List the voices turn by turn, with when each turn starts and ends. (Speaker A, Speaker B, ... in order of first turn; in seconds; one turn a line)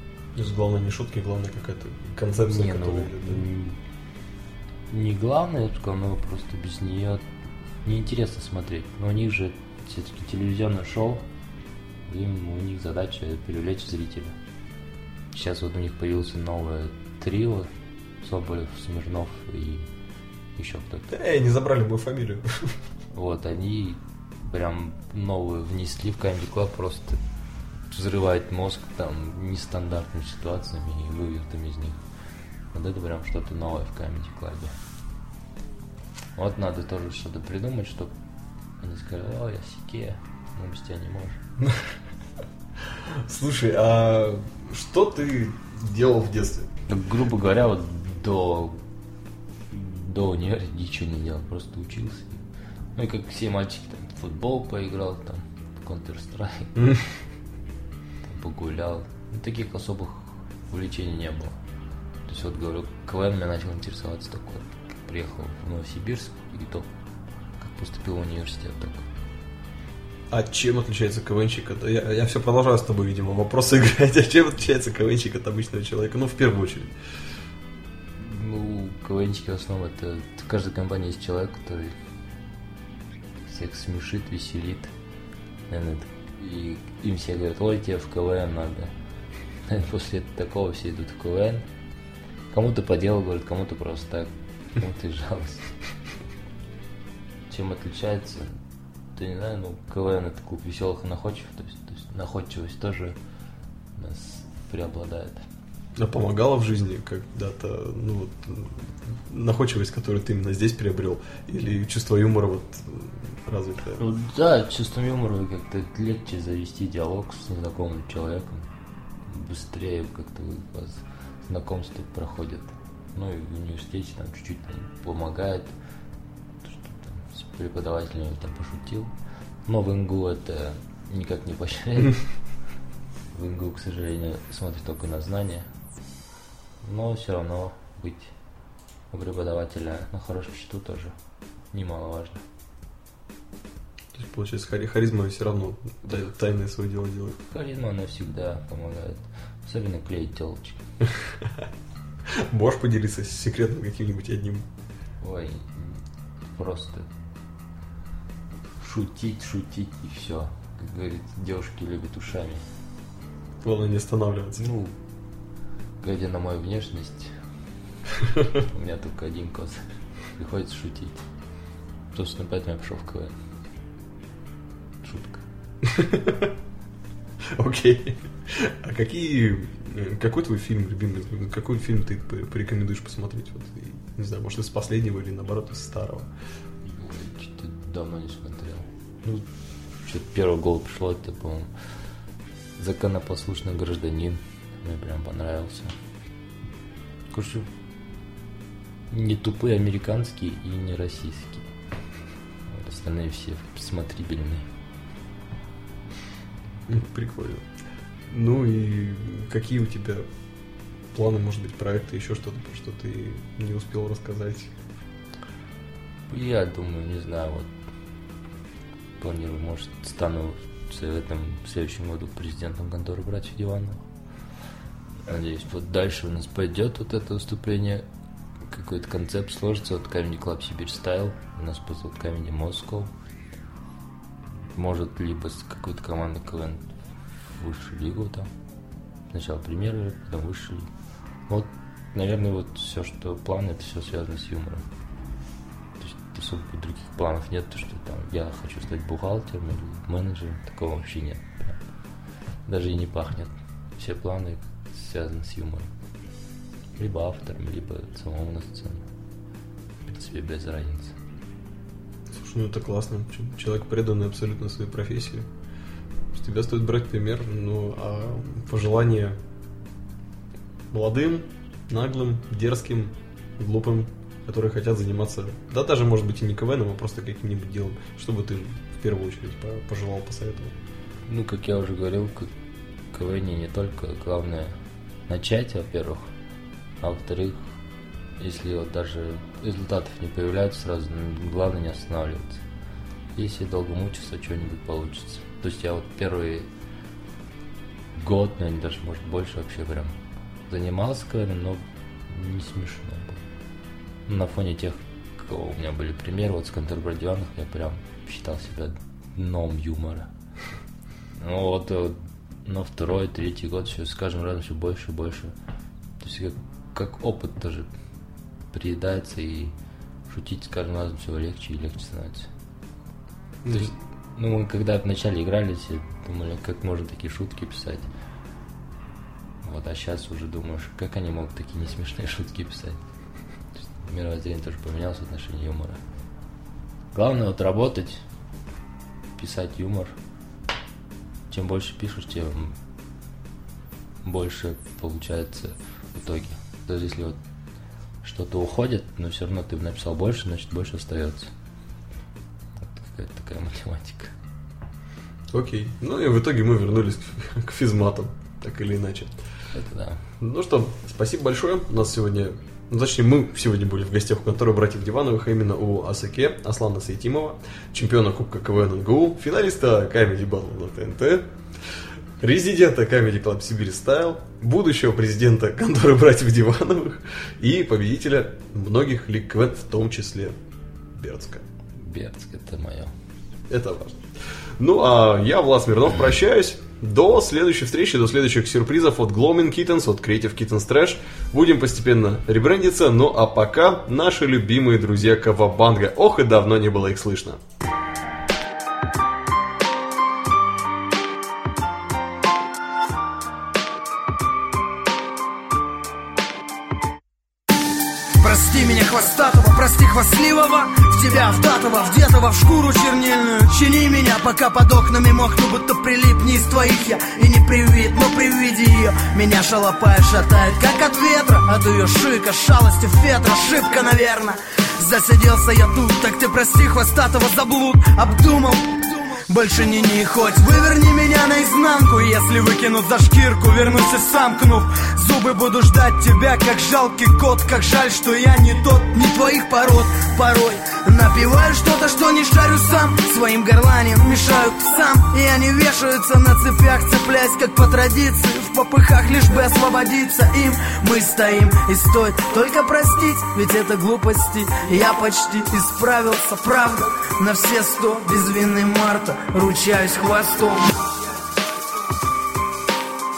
Speaker A: 0.3-3.4
Speaker B: 2.5-3.8
Speaker B: 4.9-7.2
Speaker B: 7.8-11.2
Speaker B: 12.1-14.3
Speaker B: 15.3-17.7
Speaker B: 18.2-19.9
Speaker B: 20.6-21.1
Speaker A: 21.1-22.7
Speaker B: 23.1-27.2
Speaker B: 27.9-32.0
Speaker B: 32.7-34.7
Speaker B: 36.4-38.1
Speaker B: 38.8-41.4
Speaker A: 42.9-46.7
Speaker B: 46.9-48.8
Speaker B: 49.7-52.4
Speaker B: 53.0-56.8
Speaker A: 56.8-57.0
Speaker B: 58.2-61.6
Speaker B: 62.3-66.9
Speaker B: 67.6-69.1
Speaker A: 70.3-76.9
Speaker B: 78.2-81.9
Speaker B: 83.5-84.9
Speaker B: 85.7-88.9
Speaker B: 89.6-91.7
Speaker B: 92.5-95.8
Speaker B: 97.5-98.6
Speaker B: 99.1-103.2
Speaker B: 104.0-105.4
Speaker A: 106.0-114.0
Speaker B: 114.0-118.7
Speaker B: 119.2-125.7
Speaker B: 126.6-129.1
Speaker B: 129.7-132.2
Speaker B: 133.3-135.7
Speaker B: 136.8-138.3
Speaker B: 139.1-141.1
Speaker B: 141.7-142.4
Speaker A: 144.1-147.4
Speaker B: 147.4-150.8
Speaker A: 152.3-154.7
Speaker B: 155.2-157.1
Speaker B: 158.8-162.6
Speaker A: 163.6-164.6
Speaker B: 164.6-164.9
Speaker B: 166.0-167.3
Speaker B: 168.6-171.2
Speaker B: 172.1-173.3
Speaker B: 175.0-175.4
Speaker A: 175.8-176.5
Speaker A: 177.5-186.3
Speaker B: 186.8-189.4
Speaker B: 190.0-191.7
Speaker B: 192.8-195.9
Speaker B: 197.3-197.7
Speaker B: 199.1-201.7
Speaker B: 202.7-204.7
Speaker A: 206.9-207.7
Speaker A: 208.3-210.3
Speaker A: 211.1-214.7
Speaker B: 216.3-217.7
Speaker B: 219.2-224.0
Speaker B: 225.2-228.0
Speaker B: 228.7-233.1
Speaker B: 234.7-238.5
Speaker B: 239.3-240.9
Speaker B: 241.5-244.8
Speaker B: 246.0-251.8
Speaker B: 252.7-255.9
Speaker B: 257.0-259.0
Speaker B: 260.0-261.1
Speaker A: 262.3-265.5
Speaker A: 266.3-269.4
Speaker A: 270.9-280.7
Speaker B: 281.3-282.5
Speaker B: 283.1-284.7
Speaker B: 285.3-286.3
Speaker B: 287.0-287.7
Speaker B: 288.4-292.6
Speaker B: 293.3-296.7
Speaker B: 298.1-300.1
Speaker B: 300.7-303.4
Speaker B: 304.3-310.3
Speaker B: 311.4-315.5
Speaker B: 316.2-317.9
Speaker B: 318.7-319.7
Speaker B: 320.3-322.5
Speaker A: 323.6-323.9
Speaker B: 323.7-328.1
Speaker B: 329.6-333.0
Speaker B: 333.8-336.0
Speaker B: 337.1-338.2
Speaker B: 339.4-340.1
Speaker B: 341.5-342.8
Speaker B: 344.2-347.4
Speaker B: 348.2-351.5
Speaker B: 352.8-354.3
Speaker A: 355.5-359.4
Speaker B: 359.7-360.2
Speaker A: 360.4-371.5
Speaker A: 372.4-380.6
Speaker A: 381.1-381.6
Speaker B: 381.9-383.1
Speaker A: 383.7-384.2
Speaker A: 384.8-397.6
Speaker C: 408.4-461.0